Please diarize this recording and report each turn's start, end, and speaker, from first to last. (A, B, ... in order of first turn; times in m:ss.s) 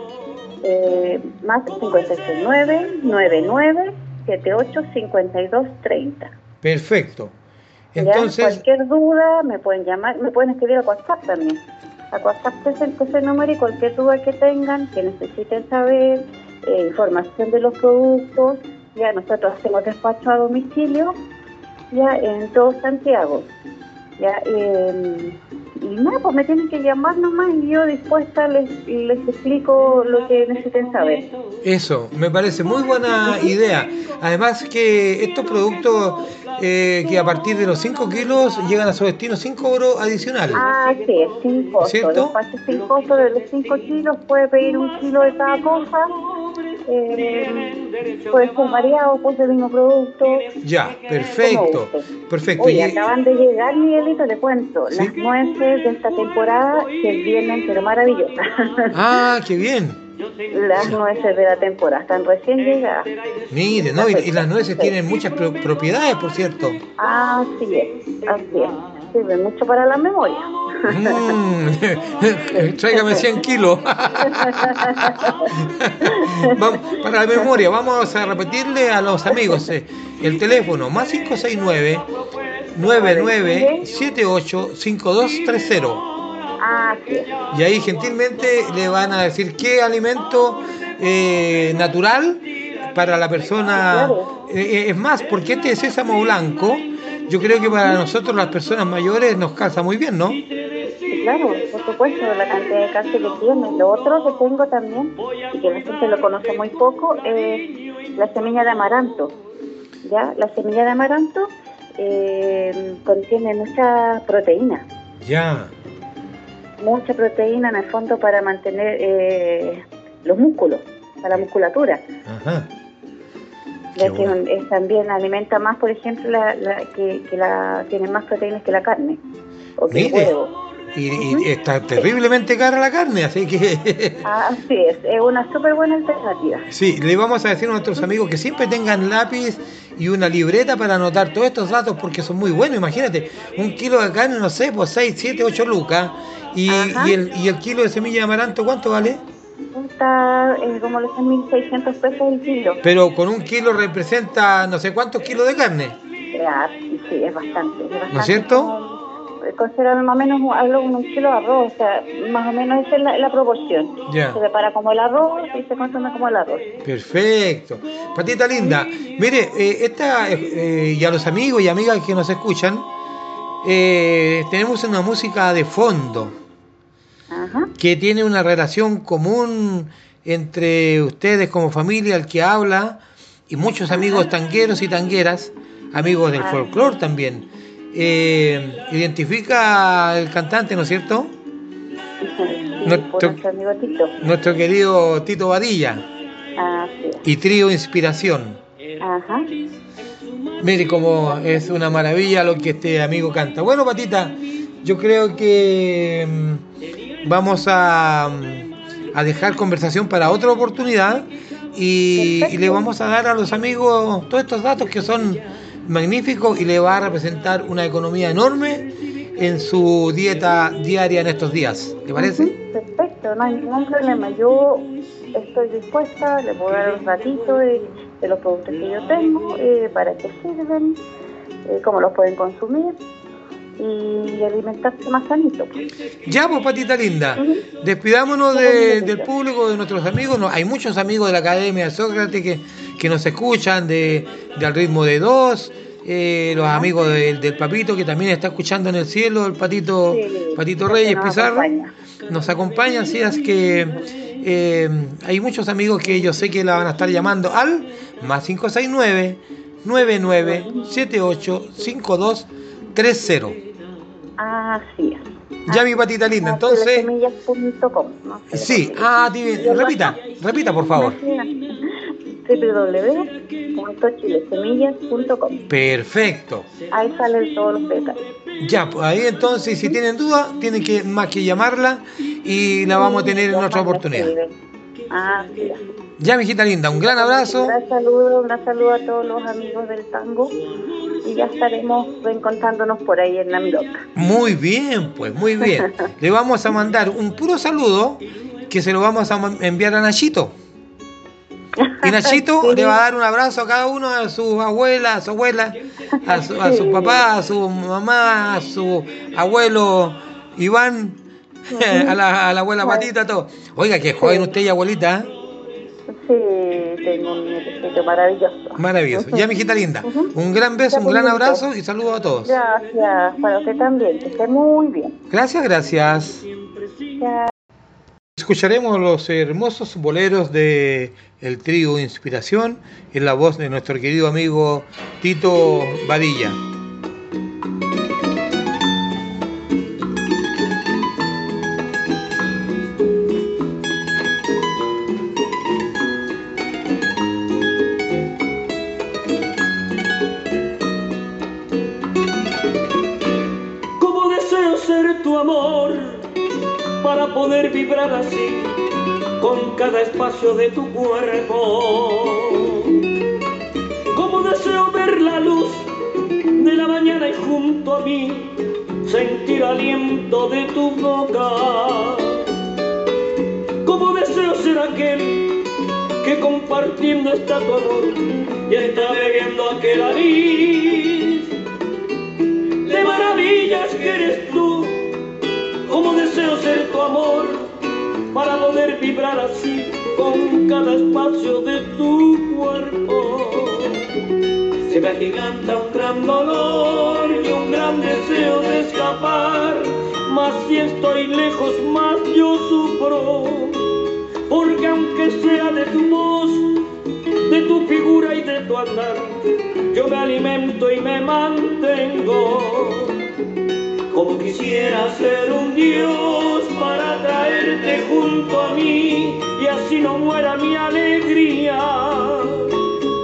0:00.6-0:06.3 A
0:06.6-0:07.3 B
0:07.9-0:08.6 B
0:08.0-0:11.6 A
0:12.1-0:21.2 A
0:21.9-0:23.5 A
0:24.2-0:31.3 A
0:31.6-0:40.6 B
0:40.5-0:46.1 A
0:41.8-0:42.4 B
0:46.8-0:47.7 A
0:48.3-0:50.5 A
0:50.6-0:53.0 B
0:51.4-0:52.1 A
0:52.6-0:58.9 A
0:54.9-0:55.2 B
0:58.9-1:00.0 B
1:00.5-1:03.1 A
1:03.5-1:06.8 B
1:03.9-1:04.9 A
1:07.0-1:11.3 A
1:10.9-1:22.0 B
1:12.8-1:13.2 A
1:14.5-1:15.3 A
1:16.2-1:16.6 A
1:22.7-1:26.0 B
1:22.9-1:23.8 A
1:26.6-1:27.3 A
1:27.5-1:40.4 B
1:33.7-1:34.3 A
1:41.1-1:49.3 A
1:50.0-1:54.8 A
1:55.2-1:55.7 B
1:56.8-2:02.0 A
2:02.2-2:02.7 B
2:04.0-2:09.2 A
2:04.0-2:04.4 B
2:09.8-2:10.5 A
2:09.9-2:10.3 B
2:10.9-2:14.2 B
2:11.2-2:11.4 A
2:14.2-2:16.6 A
2:16.7-2:29.2 B
2:26.7-2:27.2 A
2:29.7-2:32.8 A
2:32.8-2:36.0 B
2:36.3-2:46.6 A
2:38.1-2:38.7 B
2:44.1-2:44.4 B
2:46.8-2:52.9 B
2:53.6-2:56.4 B
2:57.3-2:57.7 A
2:57.8-3:11.3 B
3:03.9-3:04.3 A
3:12.2-3:14.1 A
3:12.8-3:13.4 B
3:14.2-3:16.1 B
3:16.6-3:17.2 A
3:17.2-3:18.6 B
3:19.0-3:19.5 A
3:20.6-3:26.6 B
3:27.2-3:42.5 B
3:32.2-3:32.8 A
3:42.2-3:51.0 A
3:51.6-3:53.0 A
3:53.8-3:55.7 A
3:56.2-4:11.7 B
3:58.5-3:59.3 A
4:10.1-4:11.9 A
4:12.3-4:23.6 B
4:20.4-4:20.8 A
4:24.4-4:30.2 A
4:25.7-4:27.1 B
4:28.5-4:31.2 B
4:30.9-4:31.5 A
4:32.4-4:35.6 A
4:35.7-4:36.7 B
4:36.9-4:38.2 A
4:38.6-4:44.3 B
4:42.9-4:44.5 A
4:45.1-4:45.8 A
4:46.2-4:47.8 B
4:47.1-4:50.6 A
4:51.2-4:54.0 A
4:54.2-5:00.6 B
5:01.8-5:03.0 A
5:02.0-5:11.2 B
5:06.3-5:07.2 A
5:11.7-5:15.3 B
5:11.7-5:12.2 A
5:12.8-5:13.1 A
5:14.2-5:14.5 A
5:16.1-5:19.5 A
5:18.8-5:22.6 B
5:20.0-5:20.3 A
5:20.9-5:21.6 A
5:22.4-5:25.2 A
5:25.3-5:26.4 B
5:27.2-5:27.5 A
5:28.4-5:36.6 B
5:54.0-5:56.3 C
5:57.0-5:58.7 C
5:59.4-6:02.9 C
6:04.1-6:05.9 C
6:06.5-6:12.5 C
6:13.8-6:15.6 C
6:16.2-6:21.5 C
6:22.8-6:25.1 C
6:25.8-6:27.7 C
6:28.3-6:34.0 C
6:34.8-6:43.9 C
6:44.5-6:46.7 C
6:47.4-6:53.2 C
6:54.1-7:02.7 C